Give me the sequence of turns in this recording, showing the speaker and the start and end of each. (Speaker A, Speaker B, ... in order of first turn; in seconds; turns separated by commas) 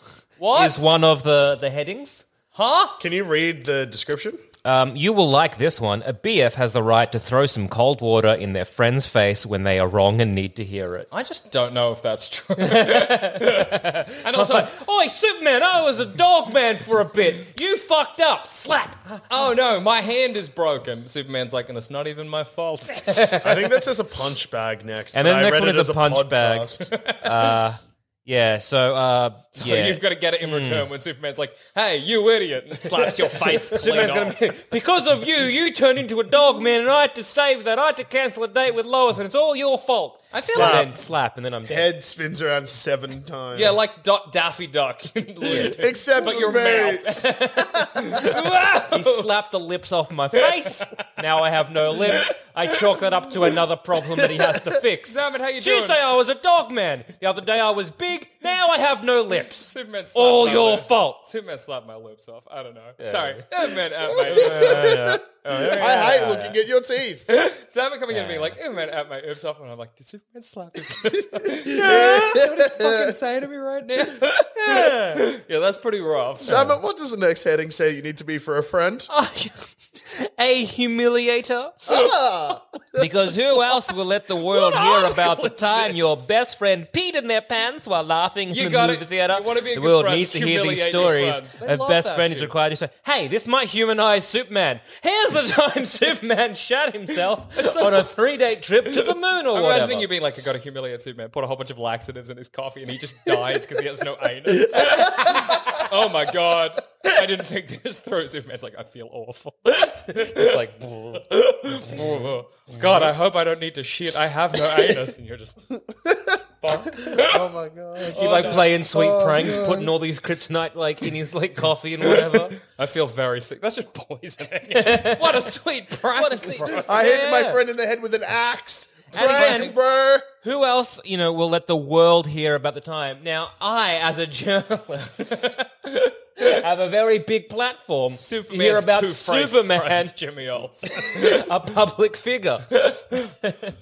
Speaker A: 0.4-0.8, Speaker B: 0.5-2.2, Speaker A: 2.5-3.0, Speaker C: 3.0-4.4, Speaker B: 4.6-11.1, Speaker A: 11.1-14.7, Speaker B: 12.6-19.2, Speaker A: 19.3-23.4, Speaker C: 23.4-26.9, Speaker B: 25.1-30.9, Speaker A: 26.9-27.5, Speaker A: 29.5-34.3, Speaker C: 32.9-33.7, Speaker B: 33.5-41.9, Speaker A: 40.3-40.9, Speaker C: 40.5-40.9, Speaker C: 41.7-43.9, Speaker A: 43.5-49.3, Speaker C: 45.5-48.0, Speaker B: 48.1-61.2, Speaker A: 55.0-56.0, Speaker A: 59.7-65.0, Speaker B: 63.0-63.4, Speaker C: 64.2-67.3, Speaker B: 64.3-66.6, Speaker A: 65.8-66.0, Speaker A: 67.3-76.7, Speaker B: 68.1-68.6, Speaker C: 71.7-73.1, Speaker B: 71.7-72.4, Speaker B: 74.5-75.2, Speaker C: 76.4-79.1, Speaker B: 79.1-81.9, Speaker C: 81.9-83.0, Speaker B: 83.0-100.1, Speaker A: 84.5-86.2, Speaker A: 88.5-92.5, Speaker A: 97.6-98.3, Speaker A: 98.8-110.6, Speaker B: 110.1-111.2, Speaker A: 111.1-115.7, Speaker C: 116.6-119.9, Speaker A: 116.9-117.4, Speaker B: 118.1-122.6, Speaker A: 118.2-118.7, Speaker A: 122.6-126.9, Speaker B: 124.8-125.2, Speaker B: 126.2-127.6, Speaker C: 126.8-130.2, Speaker B: 129.1-129.8, Speaker A: 129.1-129.8, Speaker B: 130.4-135.6, Speaker B: 136.4-140.1, Speaker A: 138.1-141.4, Speaker B: 140.9-142.7, Speaker A: 142.8-143.2